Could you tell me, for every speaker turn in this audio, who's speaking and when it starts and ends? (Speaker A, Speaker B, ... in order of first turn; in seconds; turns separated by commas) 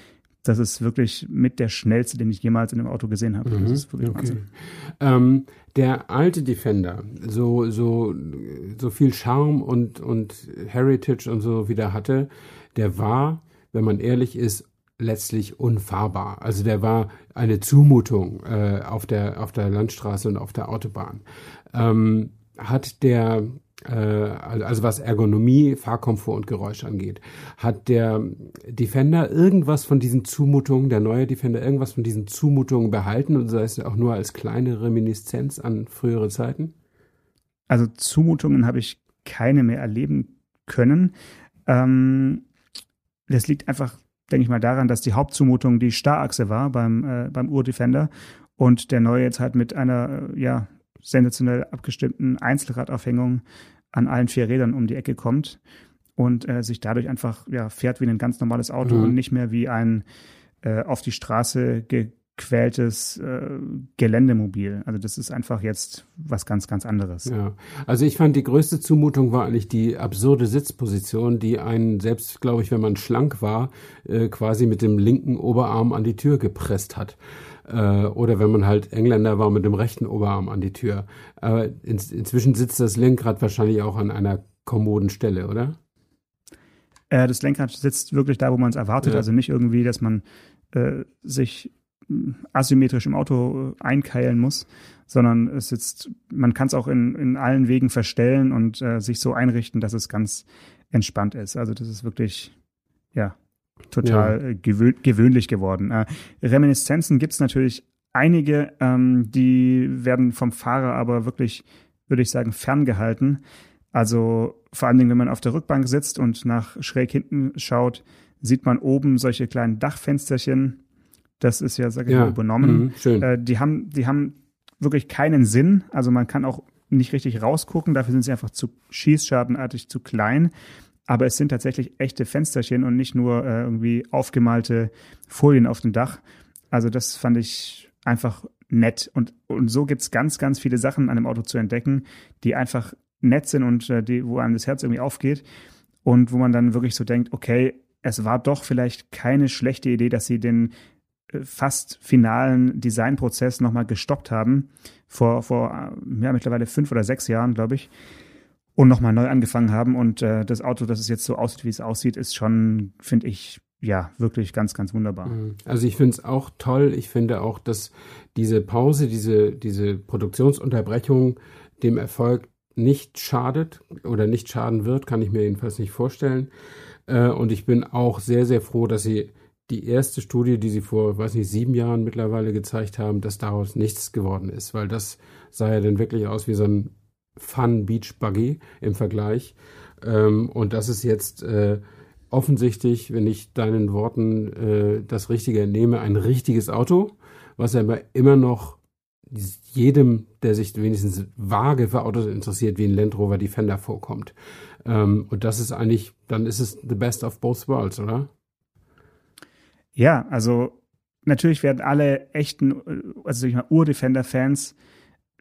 Speaker A: 0.4-4.4, Speaker B: 3.5-36.7, Speaker A: 37.7-41.1, Speaker A: 41.7-42.5, Speaker A: 43.3-55.6, Speaker A: 56.2-60.0, Speaker B: 58.9-59.1, Speaker A: 60.6-67.3, Speaker B: 67.3-85.8, Speaker A: 87.1-102.5, Speaker A: 103.9-113.4, Speaker B: 104.0-104.3, Speaker A: 113.9-120.8, Speaker A: 121.4-130.5, Speaker B: 122.1-123.3, Speaker A: 131.1-145.4, Speaker A: 146.1-150.7, Speaker A: 151.3-157.9, Speaker A: 158.8-165.4, Speaker B: 165.3-176.5, Speaker B: 177.1-191.8, Speaker B: 192.3-198.8, Speaker B: 199.3-208.3, Speaker A: 210.0-214.8